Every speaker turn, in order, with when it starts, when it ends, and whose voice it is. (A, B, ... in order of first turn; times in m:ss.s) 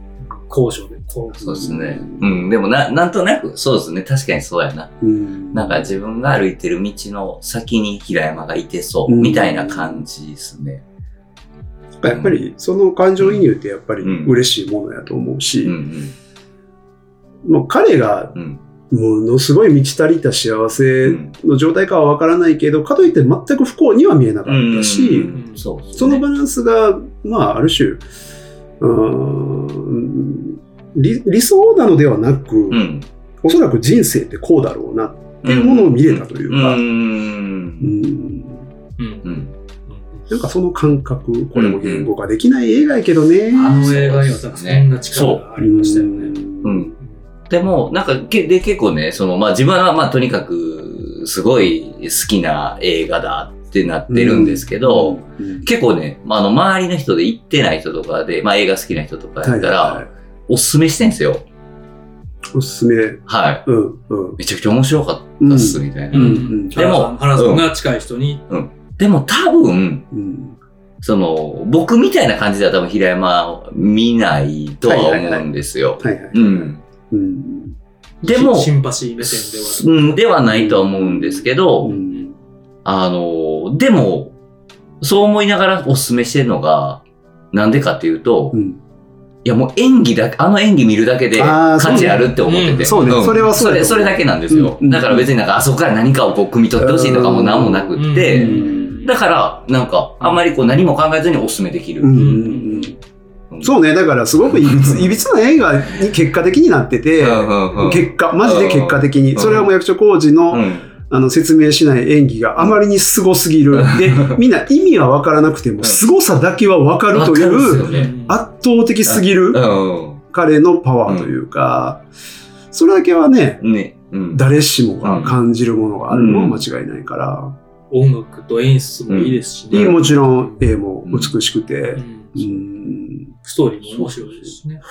0:00.3-0:02.0 A
0:01.4-0:04.9 B
0:01.6-0:02.4 C
0:05.0-0:05.9 C
0:05.5-0:10.8 B
0:09.1-0:10.0 C
0:12.0-0:15.8 C
0:12.1-0:12.4 B
0:13.2-0:13.5 B
0:14.0-0:14.3 B
0:15.6-0:16.1 B
0:17.4-0:18.4 C
0:18.3-0:18.6 B
0:18.9-0:25.3 C
0:21.0-0:21.3 B
0:24.5-0:26.2 B
0:25.3-0:25.6 A
0:25.9-0:28.0 C
0:28.8-0:32.8 C
0:32.7-0:33.1 B
0:33.4-0:36.8 C
0:35.4-0:37.9 B
0:37.8-0:38.6 C
0:39.0-0:39.3 A
0:39.2-0:39.5 B
0:39.9-0:40.2 A
0:40.3-0:43.9 C
0:41.5-0:42.1 B
0:43.5-0:45.4 B
0:43.6-0:46.4 A
0:45.6-0:46.9 C
0:46.6-0:46.9 B
0:47.5-1:01.4 B
0:54.1-0:55.7 C
0:59.4-1:00.1 C
1:02.5-1:04.4 C
1:03.3-1:03.6 B
1:04.4-1:07.7 B
1:05.4-1:06.8 C
1:06.1-1:08.4 A
1:08.5-1:10.1 B
1:10.1-1:10.6 C
1:11.0-1:16.8 B
1:14.8-1:15.5 C
1:16.0-1:17.8 C
1:18.2-1:22.0 B
1:18.2-1:20.0 A
1:20.4-1:22.3 C
1:22.8-1:24.3 B
1:25.0-1:28.6 B
1:28.5-1:28.8 C
1:29.4-1:42.4 B
1:31.3-1:35.3 C
1:31.8-1:33.4 A
1:36.8-1:39.0 C
1:38.0-1:39.1 A
1:42.0-1:43.0 C
1:42.1-1:42.9 A
1:43.6-1:59.6 C
1:44.6-1:45.0 B
1:47.2-1:49.7 B
1:50.5-1:50.9 B
1:53.7-1:54.4 B
1:55.8-1:56.1 B
1:57.1-1:58.1 B
1:57.8-1:58.4 A
1:59.0-2:00.2 B
2:00.2-2:02.0 C
2:01.0-2:01.3 B
2:02.7-2:03.6 C
2:03.6-2:04.4 B
2:04.3-2:07.5 C
2:05.0-2:05.4 B
2:06.1-2:06.6 B
2:07.9-2:10.6 A
2:09.1-2:10.0 B
2:09.7-2:13.3 C
2:11.0-2:11.4 B
2:12.0-2:12.4 A
2:13.4-2:14.8 A